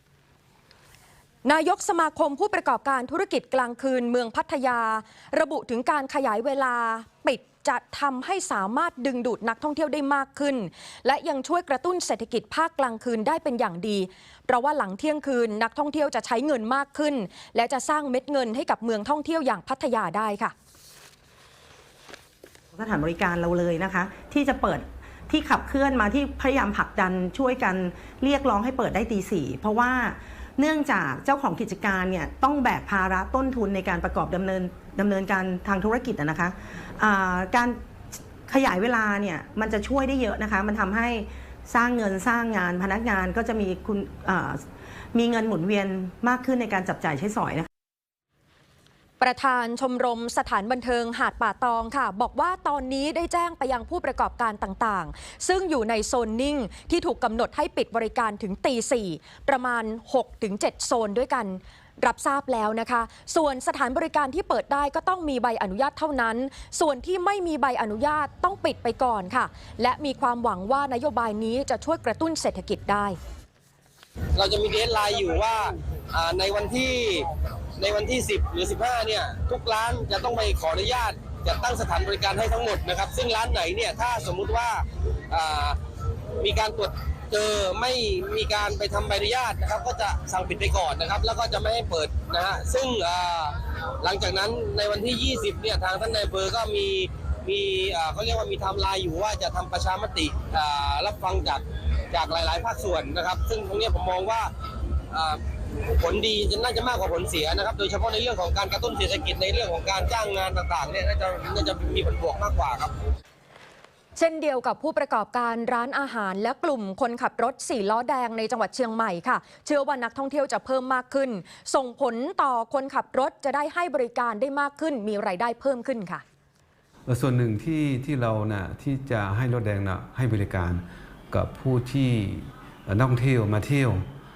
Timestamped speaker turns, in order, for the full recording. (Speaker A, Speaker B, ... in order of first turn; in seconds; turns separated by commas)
Speaker A: 1.4-20.5, Speaker B: 22.7-37.8, Speaker B: 38.5-44.6, Speaker B: 45.1-47.7, Speaker A: 49.2-73.2, Speaker C: 74.4-85.8, Speaker C: 86.4-104.5, Speaker C: 105.1-112.9, Speaker A: 114.2-126.2, Speaker D: 127.1-134.1